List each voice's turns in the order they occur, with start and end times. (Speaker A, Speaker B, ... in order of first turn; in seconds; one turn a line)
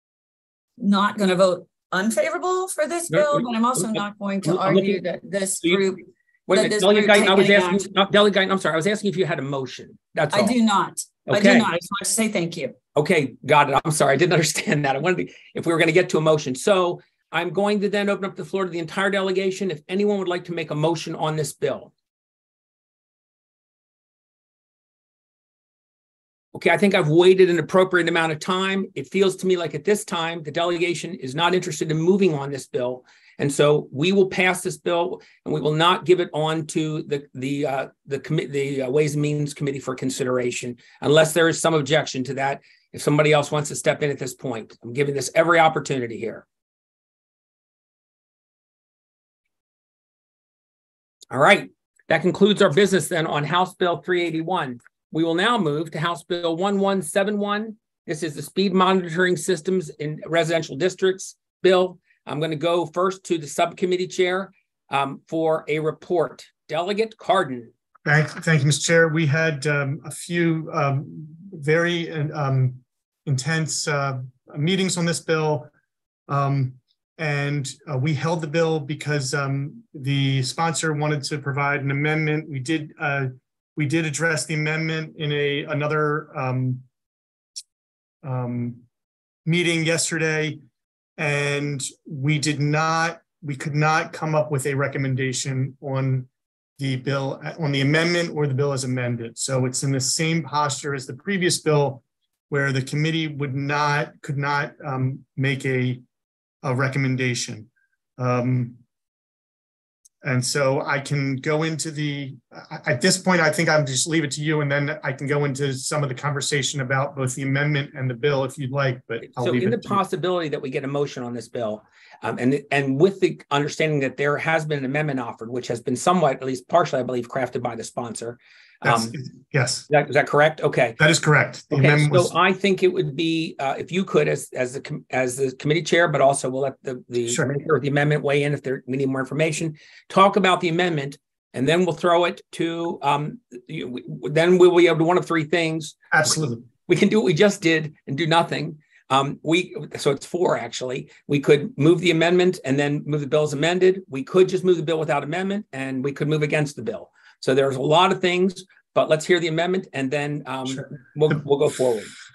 Speaker A: 0.8-7.8
Speaker B: 3.1-5.0
Speaker B: 6.5-10.6
Speaker A: 10.3-12.8
Speaker B: 11.3-11.7
Speaker B: 12.9-21.9
Speaker B: 26.5-46.5
Speaker B: 51.3-67.7
Speaker C: 68.0-75.7
Speaker C: 76.3-86.8
Speaker C: 88.2-88.8
Speaker C: 89.5-90.6
Speaker C: 91.2-96.3
Speaker C: 96.8-106.0
Speaker C: 106.6-108.8
Speaker C: 110.2-120.0
Speaker B: 119.2-129.1
Speaker C: 128.8-129.9
Speaker B: 129.9-131.0
Speaker C: 131.0-132.3
Speaker B: 131.7-146.0
Speaker C: 146.1-146.7
Speaker B: 146.9-162.1
Speaker C: 160.7-161.4